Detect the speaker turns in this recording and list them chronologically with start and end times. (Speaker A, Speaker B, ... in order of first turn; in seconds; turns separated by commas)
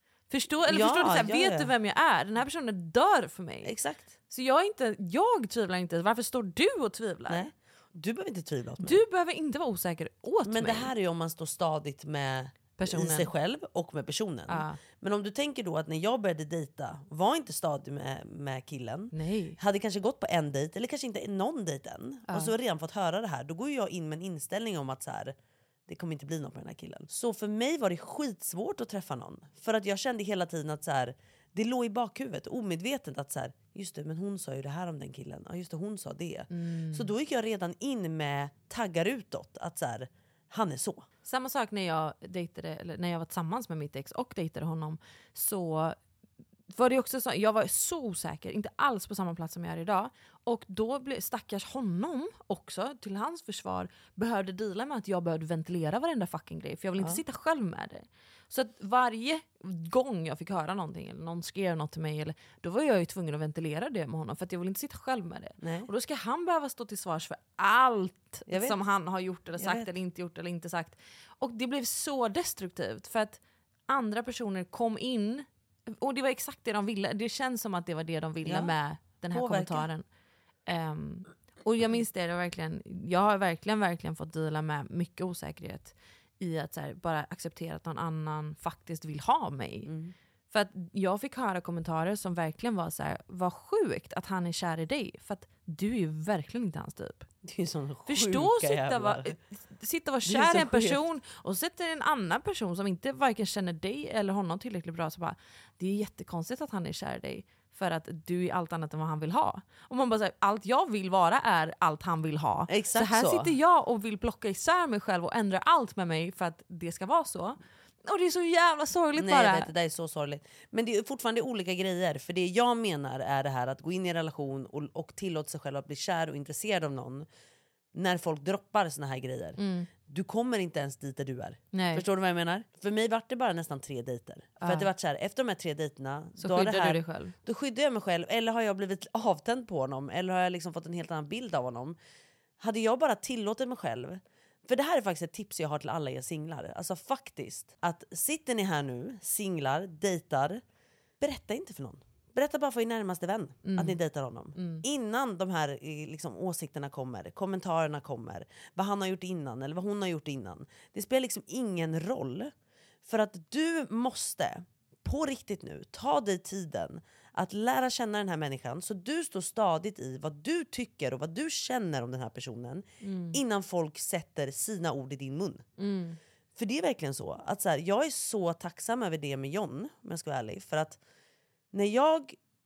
Speaker A: 0.3-3.7, Speaker B: 0.7-1.7, Speaker B: 3.6-4.1, Speaker A: 4.3-7.5, Speaker B: 7.3-9.0, Speaker A: 8.8-10.9, Speaker B: 10.5-25.4, Speaker A: 12.8-13.3, Speaker A: 14.5-14.8, Speaker A: 19.1-19.6, Speaker A: 22.3-22.5, Speaker B: 25.9-41.1, Speaker A: 36.5-37.1, Speaker A: 41.2-46.0, Speaker A: 46.7-80.0, Speaker B: 65.6-65.9, Speaker B: 68.5-68.8, Speaker B: 69.6-69.9, Speaker B: 78.5-78.7, Speaker B: 79.3-79.9, Speaker A: 80.7-89.9, Speaker B: 89.9-90.1, Speaker A: 90.5-97.3, Speaker B: 97.5-99.3, Speaker A: 98.1-119.7, Speaker B: 100.2-101.0, Speaker B: 112.7-113.5, Speaker B: 119.2-127.3, Speaker B: 127.9-142.0, Speaker A: 129.6-129.9, Speaker A: 131.7-132.1, Speaker A: 134.6-134.9, Speaker A: 136.4-137.3, Speaker B: 142.6-150.6, Speaker B: 151.2-162.5, Speaker A: 153.7-154.0, Speaker A: 154.6-154.8, Speaker B: 163.1-175.7, Speaker A: 173.0-173.4, Speaker A: 175.8-176.2, Speaker B: 176.6-181.0, Speaker B: 181.7-182.4